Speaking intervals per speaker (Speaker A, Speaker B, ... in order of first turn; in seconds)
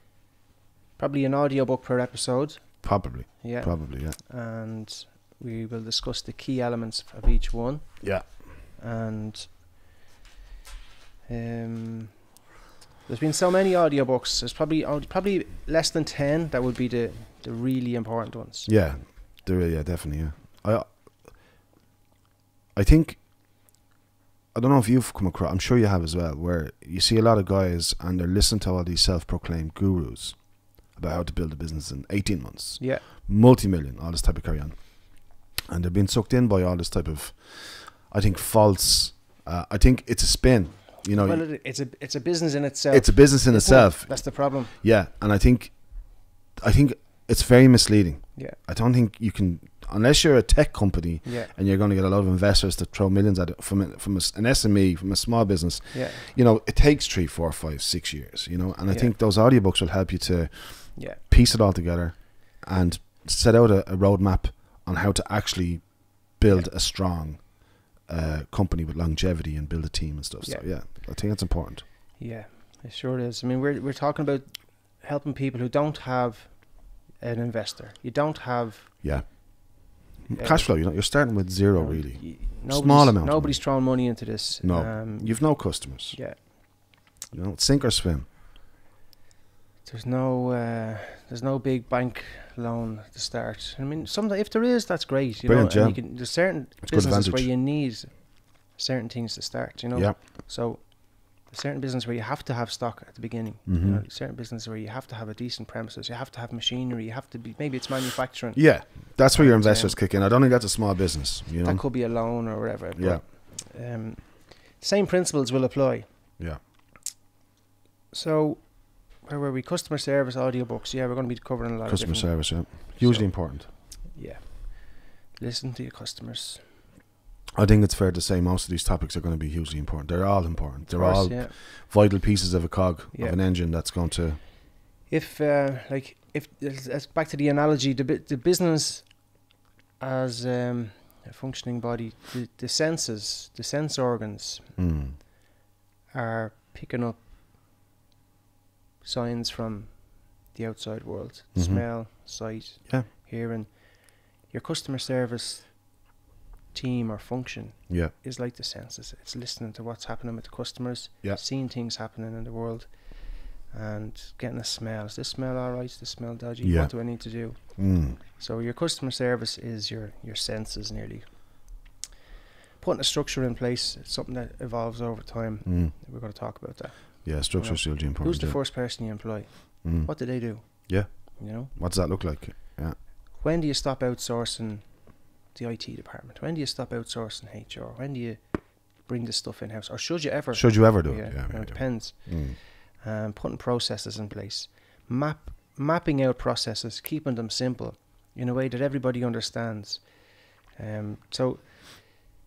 Speaker A: 1.0-9.6, 11.3-12.3, 13.1-18.9, 32.8-33.0, 41.1-44.8, 51.2-51.5, 55.9-56.3, 58.9-59.1, 61.0-61.2, 70.4-70.7, 72.2-79.4, 80.3-86.5, 89.8-110.0, 111.6-116.1, 118.1-126.7, 130.9-131.6, 133.1-133.4, 135.1-139.4, 140.0-144.8, 146.1-147.2, 149.0-156.1, 156.7-171.8, 172.8-181.7, 183.3-202.3
Speaker B: 2.8-4.2, 8.0-8.4, 18.7-21.4, 22.8-23.7, 24.5-41.5, 42.9-71.9, 79.0-88.3, 95.4-97.5, 99.9-100.3, 103.7-104.0, 108.5-113.2, 121.9-123.7, 127.6-134.4, 144.8-145.2, 151.5-152.2, 166.6-168.2, 175.7-175.9, 177.2-179.1, 179.8-183.0, 190.5-192.6